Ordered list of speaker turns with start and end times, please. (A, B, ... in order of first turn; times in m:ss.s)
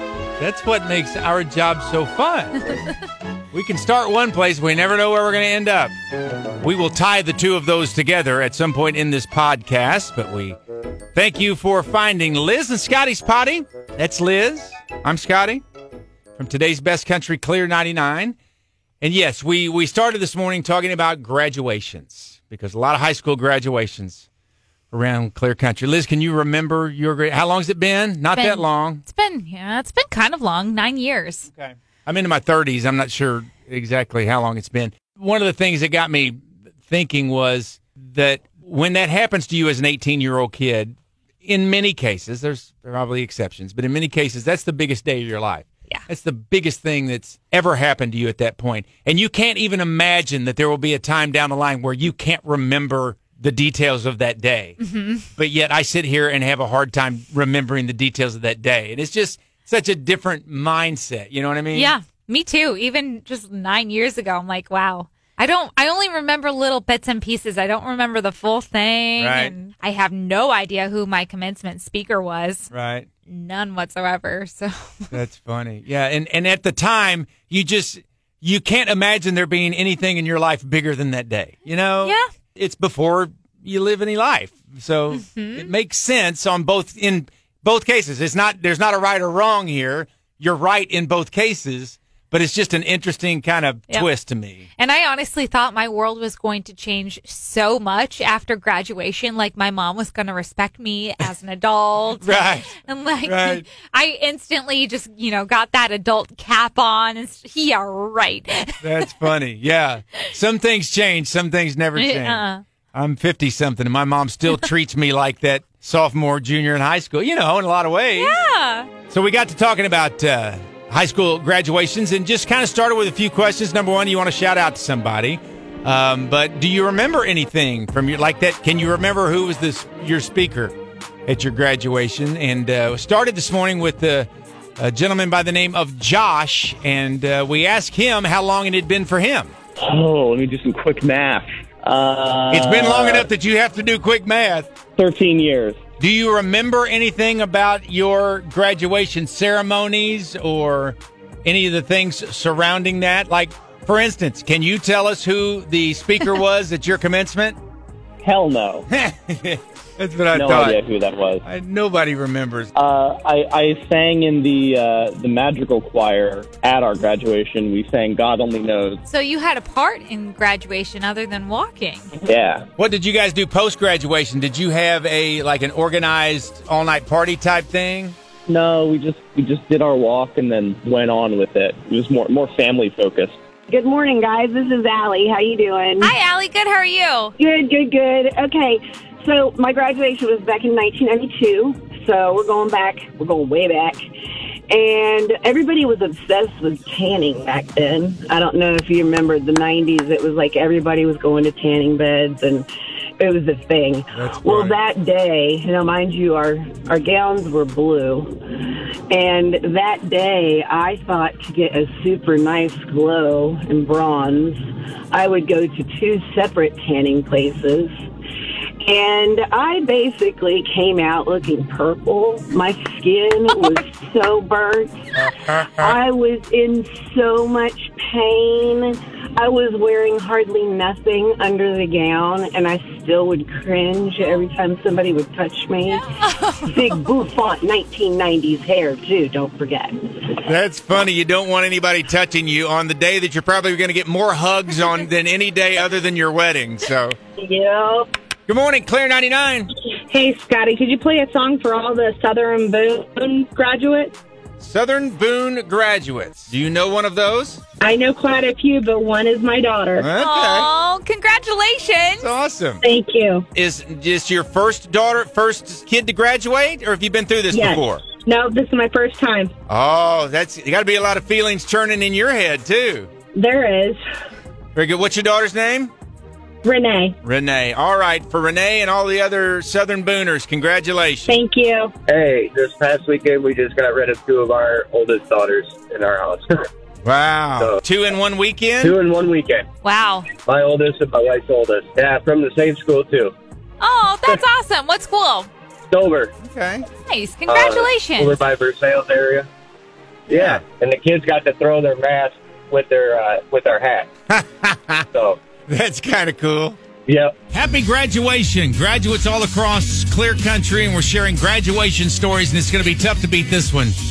0:00.4-0:02.6 A
0:03.5-0:05.9 A
0:06.6-0:10.6 A
0:11.1-0:15.6 A
0:16.3-0:18.3 A
0:19.0-0:24.2 A
0:24.9-0:29.0 A
0:28.3-0:31.5 B
0:31.5-0:54.8 A
0:54.8-0:55.2 B
0:55.4-1:01.9 A
1:01.7-1:12.7 B
1:09.2-1:09.6 A
1:12.7-1:13.1 A
1:13.3-1:15.1 B
1:15.1-1:34.7 A
1:22.0-1:22.3 B
1:25.1-1:25.7 B
1:34.8-1:49.1 B
1:42.2-1:43.7 A
1:48.8-1:58.4 A
1:52.0-1:52.6 B
1:58.2-1:58.9 B
1:59.1-2:10.7 A
2:11.3-2:19.5 A
2:19.8-2:23.3 C
2:22.5-2:24.8 A
2:25.0-2:25.8 C
2:26.0-2:37.6 A
2:38.2-2:38.8 C
2:38.9-2:40.8 A
2:40.3-2:41.4 C
2:41.4-2:42.7 A
2:42.7-2:49.0 C
2:49.1-2:52.1 B
2:52.2-2:52.6 C
2:52.8-2:58.2 A
2:58.5-3:03.3 C
3:03.7-3:06.1 D
3:06.0-3:07.3 B
3:07.4-3:14.0 D
3:14.7-3:22.7 D
3:23.2-3:28.3 D
3:24.1-3:24.8 A
3:29.1-3:34.6 D
3:35.1-3:37.9 D
3:38.8-4:00.4 D
3:56.2-3:56.7 B
4:00.4-4:07.2 A
4:07.4-4:08.0 D
4:08.5-4:09.7 A
4:10.1-4:14.2 E
4:14.6-4:17.6 A
4:17.8-4:20.1 E
4:20.0-4:20.7 A
4:20.2-4:22.3 B
4:22.2-4:22.8 A
4:22.8-4:23.4 E
4:23.5-4:28.0 A
4:27.5-4:29.5 E
4:29.7-4:33.1 A
4:33.3-4:34.0 E
4:34.7-4:35.9 A
4:36.6-4:37.1 E
4:37.2-4:41.4 A
4:41.3-4:41.9 E
4:42.1-4:46.6 F
4:47.0-4:49.0 A
4:48.8-4:49.6 F
4:49.8-4:50.3 B
4:50.4-4:53.3 F
4:53.8-4:55.5 B
4:55.9-4:56.3 F
4:56.4-4:56.8 A
4:57.0-4:58.4 B
4:57.5-4:59.5 F
5:00.3-5:00.6 A
5:00.3-5:04.1 F
5:04.3-5:05.1 A
5:05.1-5:05.4 F
5:05.7-5:06.8 A
5:07.1-5:07.3 F
5:07.5-5:14.0 A